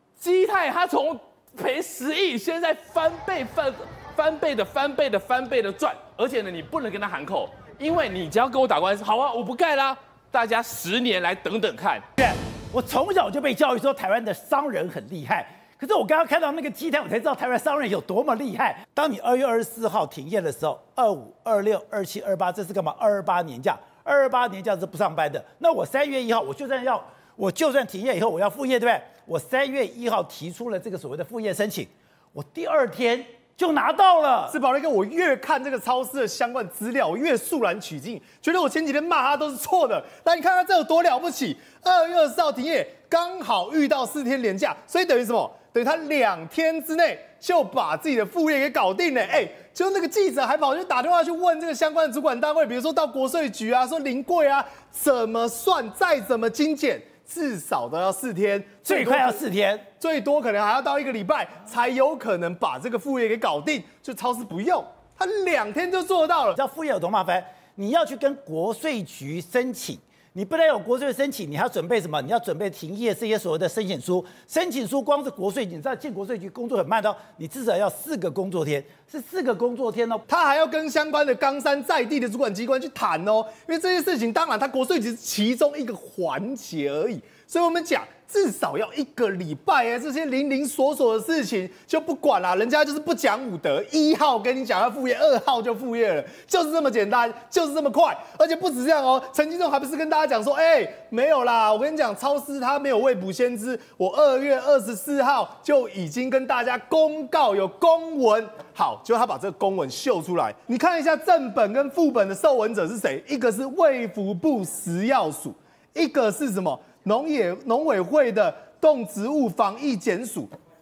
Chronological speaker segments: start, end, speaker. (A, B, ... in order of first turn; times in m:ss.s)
0:00.2-0:12.0 A
0:12.2-0:34.6 B
0:34.5-0:59.4 C
0:58.8-0:59.8 B
1:00.0-1:06.6 C
1:06.5-1:20.2 B
1:20.3-2:00.5 C